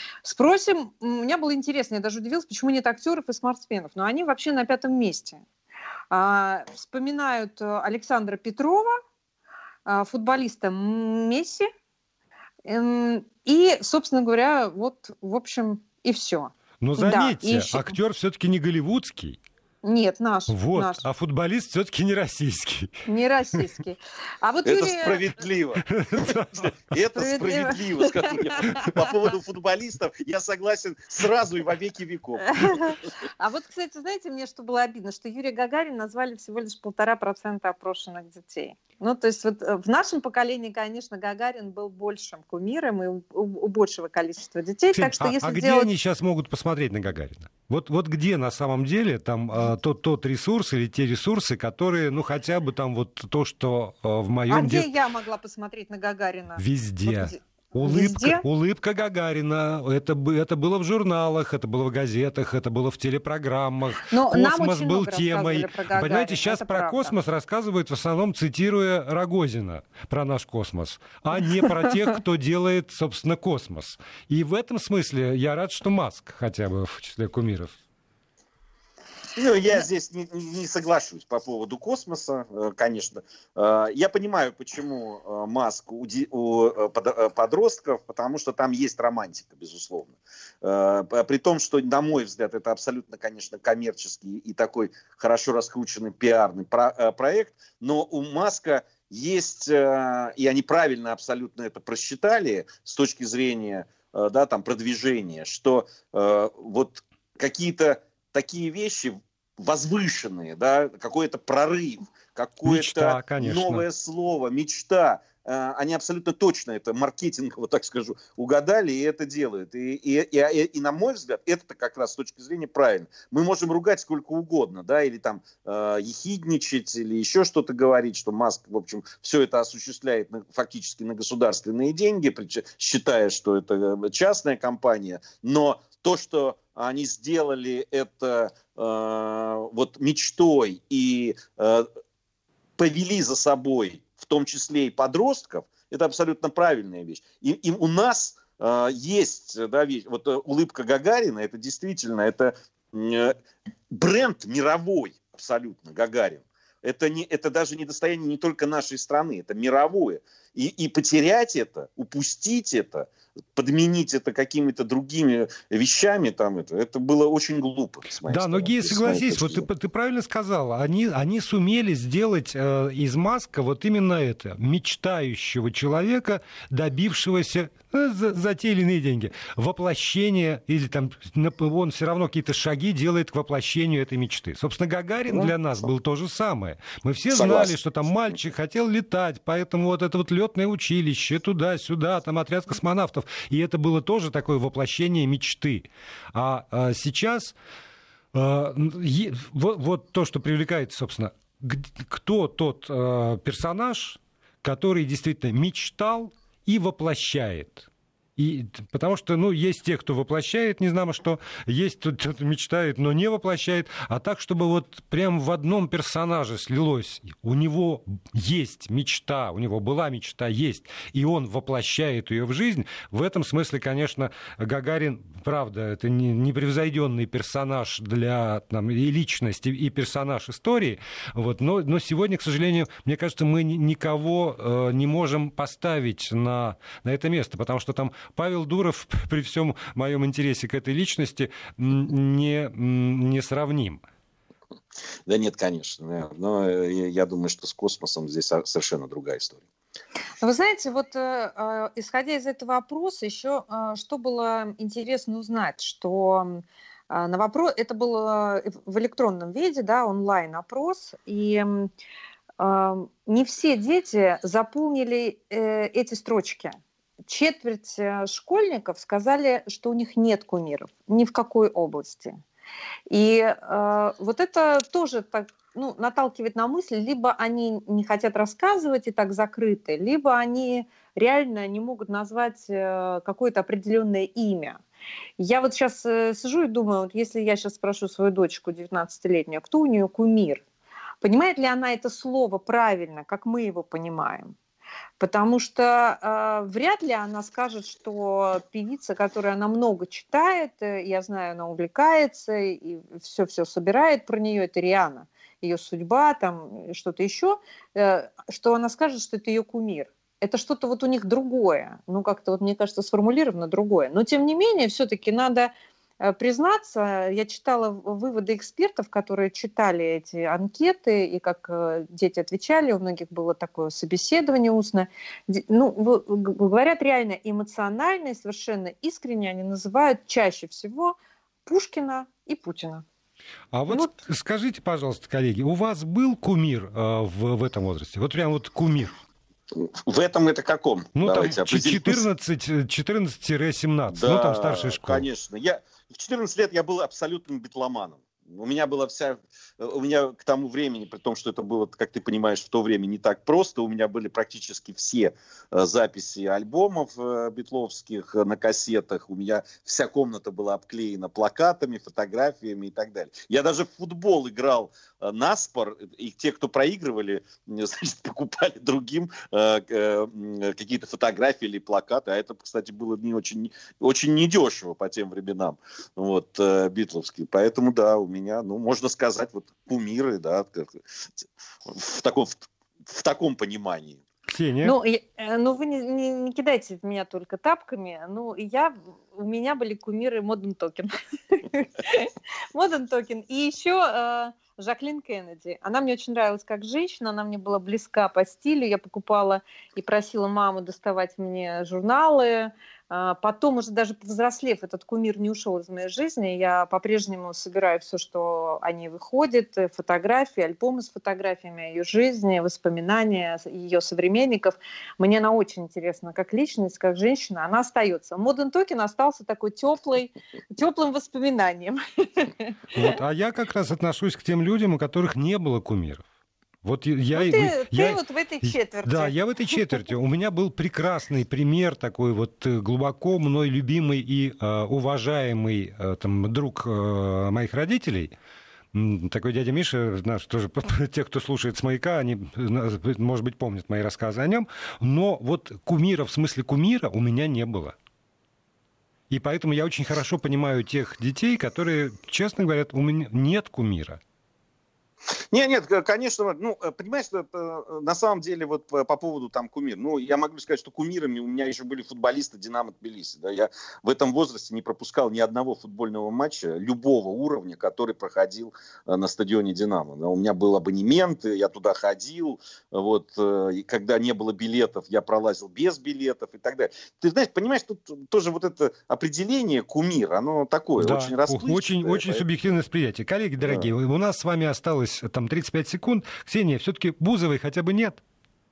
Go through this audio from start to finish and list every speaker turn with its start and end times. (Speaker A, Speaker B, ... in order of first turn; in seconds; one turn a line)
Speaker A: 0.2-5.4
Speaker A: 6.1-9.0
Speaker A: 9.8-11.7
Speaker A: 12.6-18.0
Speaker B: 16.8-19.4
Speaker A: 19.8-21.0
Speaker B: 20.5-23.0
Speaker A: 23.1-25.3
Speaker C: 24.6-32.9
Speaker B: 25.8-26.8
Speaker A: 27.1-29.1
Speaker A: 32.4-45.9
Speaker B: 44.9-54.9
Speaker A: 54.5-58.4
Speaker B: 56.6-77.8
Speaker A: 64.0-67.2
Speaker C: 79.3-141.9
Speaker B: 112.6-113.8
Speaker C: 142.8-153.3
Speaker C: 153.9-169.7
Speaker B: 168.3-197.5
Speaker C: 187.3-187.7
Speaker B: 198.3-244.0
Speaker C: 245.2-249.6
Speaker A: 250.4-261.9
Speaker A: 262.6-272.4
Speaker A: 273.1-284.8
Speaker A: 285.4-290.6
Speaker A: 291.2-294.5
Speaker A: 295.2-333.0
Speaker B: 333.7-339.1
Speaker C: 339.7-342.2
Speaker B: 341.1-345.2
Speaker C: 344.1-384.2
Speaker B: 384.5-384.9
Speaker A: 384.8-423.2
Speaker B: 422.9-426.2
Speaker B: 426.8-438.3
Speaker A: 427.3-430.0
Speaker B: 438.9-447.9
Speaker B: 449.3-454.2
Speaker C: 455.5-482.4
Speaker B: 481.0-488.2